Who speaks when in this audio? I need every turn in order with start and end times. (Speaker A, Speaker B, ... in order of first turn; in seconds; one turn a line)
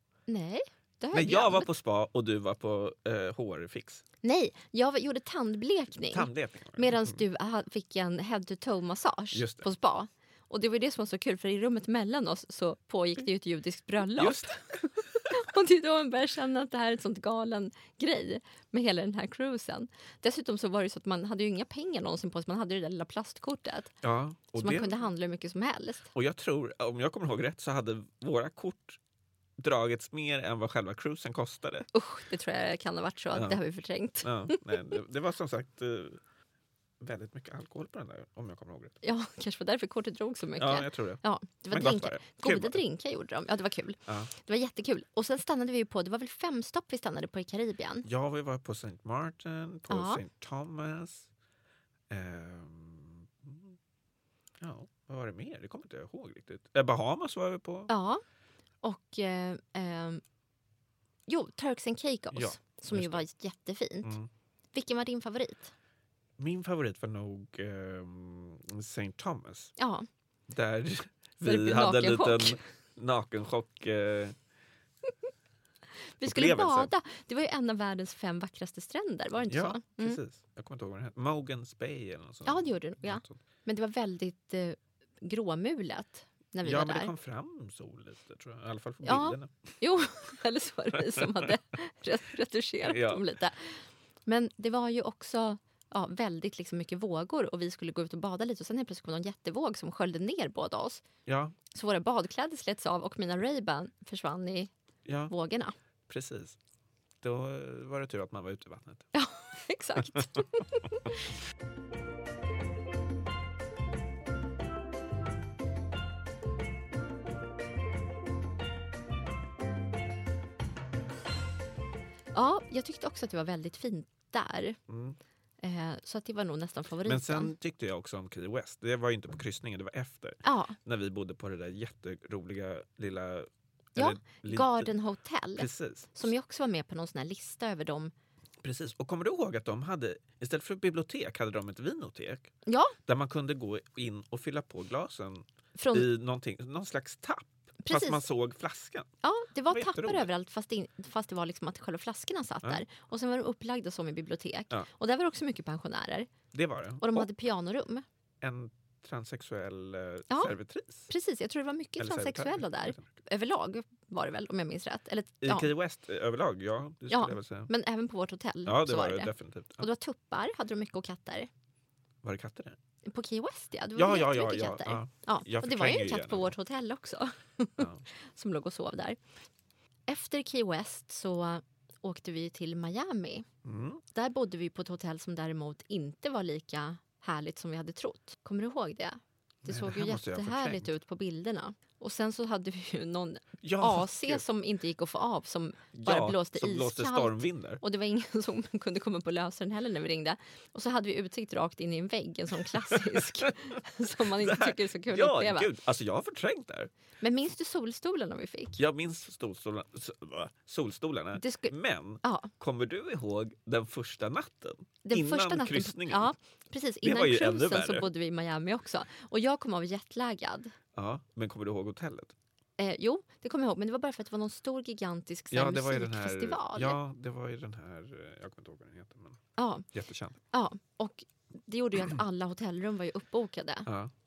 Speaker A: 0.3-1.7
Speaker B: 1.1-4.0
Speaker A: 4.2-14.5
Speaker B: 6.1-7.2
Speaker B: 9.3-9.7
Speaker B: 14.2-14.7
Speaker A: 15.2-23.9
Speaker B: 24.0-24.9
Speaker A: 24.6-26.1
Speaker B: 26.1-29.0
Speaker B: 29.6-31.9
Speaker A: 31.9-34.7
Speaker B: 33.3-33.6
Speaker B: 34.2-36.2
Speaker B: 37.0-39.0
Speaker A: 39.0-48.0
Speaker B: 40.6-42.8
Speaker B: 48.0-51.3
Speaker A: 49.9-50.2
Speaker B: 52.1-53.7
Speaker B: 54.6-57.9
Speaker A: 57.9-58.2
Speaker A: 58.8-60.2
Speaker A: 61.3-64.1
Speaker B: 62.3-63.2
Speaker B: 64.0-64.3
Speaker A: 64.7-65.7
Speaker B: 66.4-69.7
Speaker A: 69.8-70.1
Speaker B: 70.5-74.3
Speaker A: 71.4-72.6
Speaker A: 76.2-80.2
Speaker B: 76.2-76.9
Speaker B: 79.5-83.4
Speaker A: 82.5-87.1
Speaker B: 86.6-89.7
Speaker A: 89.0-101.0
Speaker B: 90.9-91.5
Speaker B: 92.8-93.2
Speaker B: 101.3-101.5
Speaker A: 101.7-104.7
Speaker B: 105.0-105.3
Speaker A: 105.3-105.7
Speaker B: 106.1-106.6
Speaker B: 107.2-109.1
Speaker A: 109.1-111.1
Speaker A: 122.3-124.8
Speaker B: 124.9-125.2
Speaker A: 125.6-127.5
Speaker B: 127.0-134.9
Speaker A: 130.4-130.8
Speaker A: 133.9-138.1
Speaker B: 135.6-136.3
Speaker B: 138.6-142.5
Speaker A: 142.7-142.9
Speaker B: 143.1-149.1
Speaker A: 145.8-146.1
Speaker A: 147.8-148.2
Speaker A: 149.2-156.3
Speaker B: 149.7-150.3
Speaker B: 156.5-157.3
Speaker A: 157.0-158.0
Speaker B: 158.4-161.1
Speaker A: 161.1-165.7
Speaker B: 162.0-163.1
Speaker B: 165.4-167.7
Speaker A: 167.1-171.5
Speaker B: 168.6-169.9
Speaker B: 172.2-172.8
Speaker A: 173.1-179.2
Speaker B: 173.9-176.5
Speaker B: 177.8-178.1
Speaker A: 180.1-183.4
Speaker B: 183.6-184.0
Speaker A: 184.1-205.7
Speaker B: 189.7-190.9
Speaker B: 193.6-194.4
Speaker B: 195.9-197.8
Speaker B: 202.9-203.5
Speaker B: 204.3-206.9
Speaker A: 207.2-208.8
Speaker B: 208.8-216.3
Speaker A: 211.4-211.7
Speaker A: 215.0-220.7
Speaker B: 217.0-218.1
Speaker B: 220.9-222.3
Speaker A: 222.8-227.0
Speaker B: 225.5-229.4
Speaker A: 229.6-229.8
Speaker B: 229.9-230.4
Speaker A: 230.5-233.9